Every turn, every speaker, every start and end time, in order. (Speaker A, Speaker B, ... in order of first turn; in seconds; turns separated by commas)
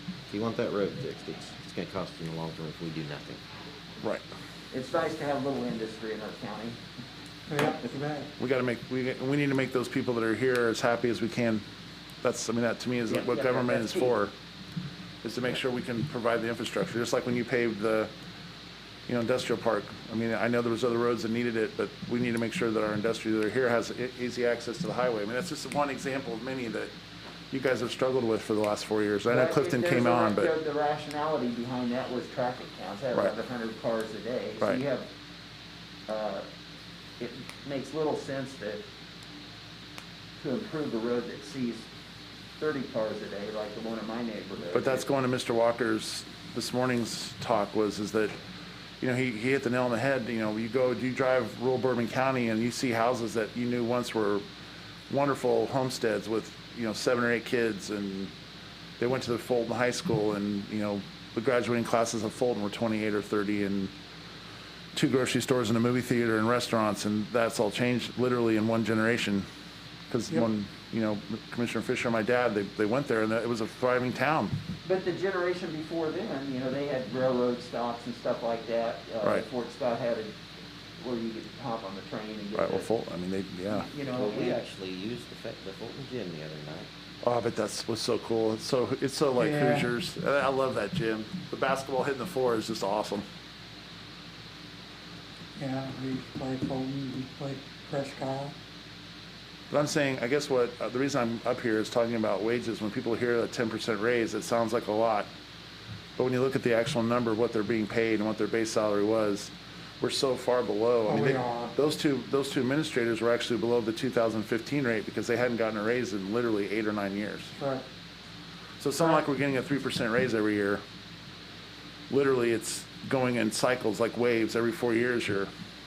Speaker A: 0.3-3.4, Speaker B: 4.7-6.8, Speaker C: 7.5-8.3, Speaker D: 8.4-11.6, Speaker D: 12.2-14.3, Speaker B: 13.1-14.2, Speaker D: 15.2-18.1, Speaker D: 19.1-26.9, Speaker D: 27.5-30.5, Speaker B: 29.3-35.1, Speaker B: 36.1-36.4, Speaker B: 37.2-38.8, Speaker B: 40.4-41.9, Speaker B: 42.6-45.0, Speaker D: 44.7-48.3, Speaker D: 49.0-54.4, Speaker D: 55.1-58.3, Speaker D: 59.0-63.9, Speaker D: 64.9-69.4, Speaker D: 70.1-74.5, Speaker B: 74.8-80.3, Speaker B: 81.0-82.9, Speaker D: 82.5-83.9, Speaker B: 83.7-84.6, Speaker A: 84.1-86.9, Speaker D: 87.2-93.2, Speaker C: 89.4-89.9, Speaker C: 95.5-98.5, Speaker D: 99.7-105.3, Speaker D: 106.2-117.5, Speaker C: 111.0-111.7, Speaker C: 117.6-117.8, Speaker D: 118.8-120.8, Speaker B: 119.0-119.2, Speaker D: 122.1-125.5